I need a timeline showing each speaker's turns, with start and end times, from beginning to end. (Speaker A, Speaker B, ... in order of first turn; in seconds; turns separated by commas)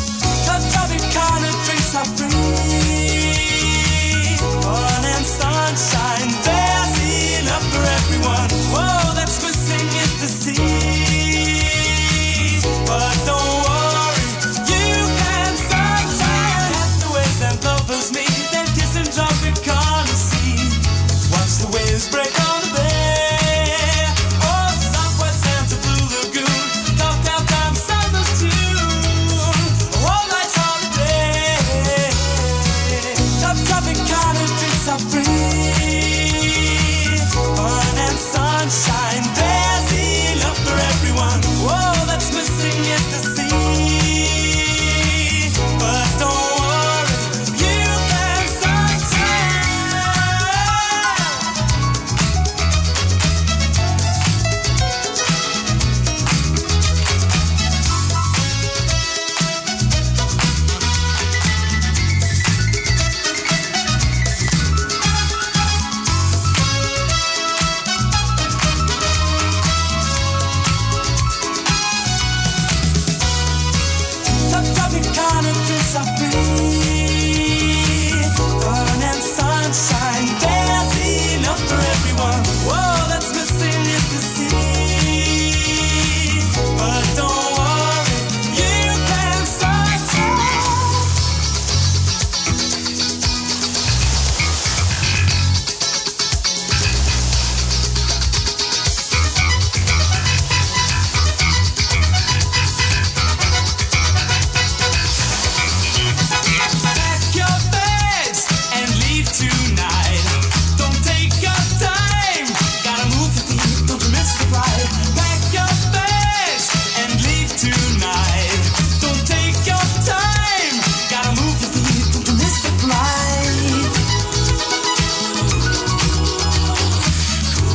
Speaker A: 0.4-51.4, Speaker A: 74.3-90.9, Speaker A: 106.9-124.0